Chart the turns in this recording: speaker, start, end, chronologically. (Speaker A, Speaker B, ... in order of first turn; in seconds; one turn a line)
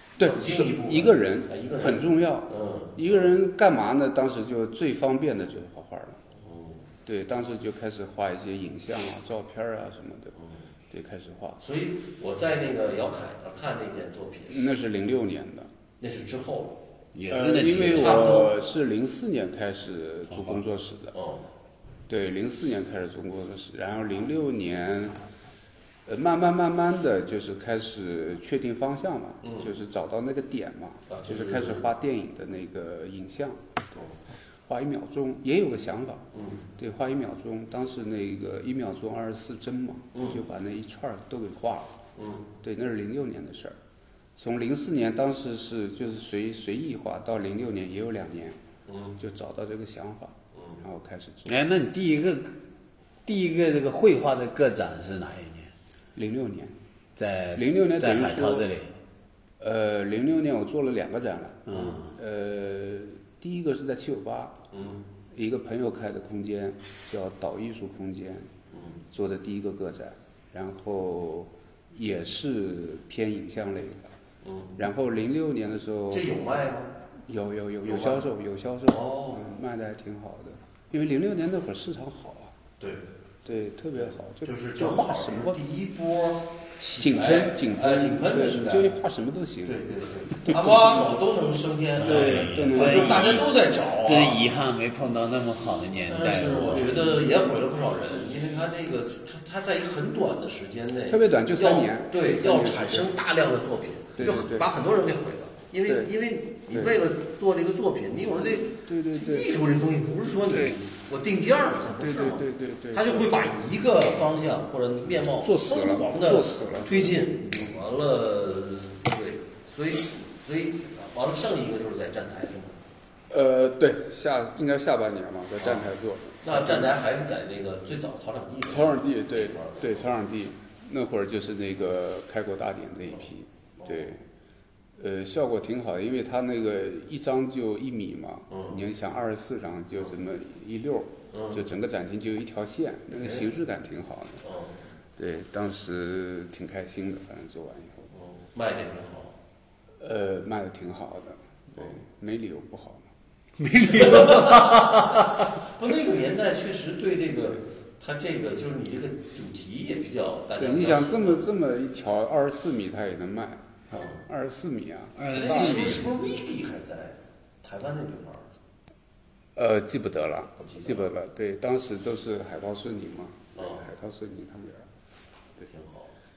Speaker A: 0.2-3.3
Speaker B: 0.2-6.2
Speaker A: 6.3-6.8
Speaker B: 7.0-10.3
Speaker A: 10.3-10.6
Speaker B: 10.9-11.6
Speaker A: 11.6-14.6
Speaker B: 14.5-15.7
Speaker A: 16.0-16.8
Speaker C: 17.1-18.4
Speaker B: 17.3-21.1
Speaker A: 17.8-18.5
Speaker C: 20.3-20.6
Speaker A: 21.1-21.4
Speaker B: 22.1-25.2
Speaker B: 26.1-33.7
Speaker A: 29.4-29.7
Speaker A: 31.1-31.9
Speaker B: 34.6-42.0
Speaker A: 36.3-36.6
Speaker A: 40.1-40.4
Speaker A: 42.1-42.4
Speaker B: 42.6-43.8
Speaker B: 44.4-48.6
Speaker A: 48.9-49.1
Speaker B: 49.2-51.5
Speaker A: 50.5-50.8
Speaker C: 51.5-52.5
Speaker C: 53.2-55.7
Speaker B: 56.1-56.7
Speaker C: 57.2-58.9
Speaker B: 57.5-58.7
Speaker B: 59.6-64.6
Speaker C: 61.7-62.1
Speaker A: 64.7-65.0
Speaker B: 65.3-68.5
Speaker A: 68.7-69.0
Speaker B: 69.1-74.1
Speaker A: 74.4-74.8
Speaker B: 74.8-76.3
Speaker A: 76.1-76.9
Speaker B: 77.2-82.5
Speaker A: 77.8-78.3
Speaker A: 78.9-79.5
Speaker A: 82.8-83.0
Speaker B: 83.4-85.6
Speaker A: 84.4-89.0
Speaker B: 87.0-89.8
Speaker A: 89.6-94.4
Speaker B: 90.3-91.0
Speaker C: 92.0-96.9
Speaker B: 92.0-93.4
Speaker A: 96.1-122.8
Speaker B: 96.6-97.3
Speaker B: 101.1-103.1
Speaker B: 104.2-104.7
Speaker B: 105.8-106.1
Speaker B: 106.7-107.0
Speaker B: 108.8-109.6
Speaker B: 110.5-110.8
Speaker B: 112.0-113.3
Speaker B: 115.3-117.8
Speaker B: 123.3-126.9
Speaker A: 125.6-125.9
Speaker A: 126.4-130.1
Speaker B: 128.7-134.2
Speaker A: 133.8-134.1
Speaker B: 135.0-144.4
Speaker A: 138.5-138.8
Speaker A: 141.3-141.6
Speaker A: 143.1-143.5
Speaker A: 144.4-144.8
Speaker B: 145.2-148.1
Speaker A: 148.1-149.4
Speaker B: 150.0-153.1
Speaker C: 153.6-155.3
Speaker A: 153.9-161.5
Speaker B: 160.6-166.0
Speaker A: 163.9-164.2
Speaker C: 165.2-166.1
Speaker A: 165.3-168.5
Speaker B: 169.6-174.9
Speaker A: 170.6-171.1
Speaker A: 173.6-173.8
Speaker A: 175.7-176.1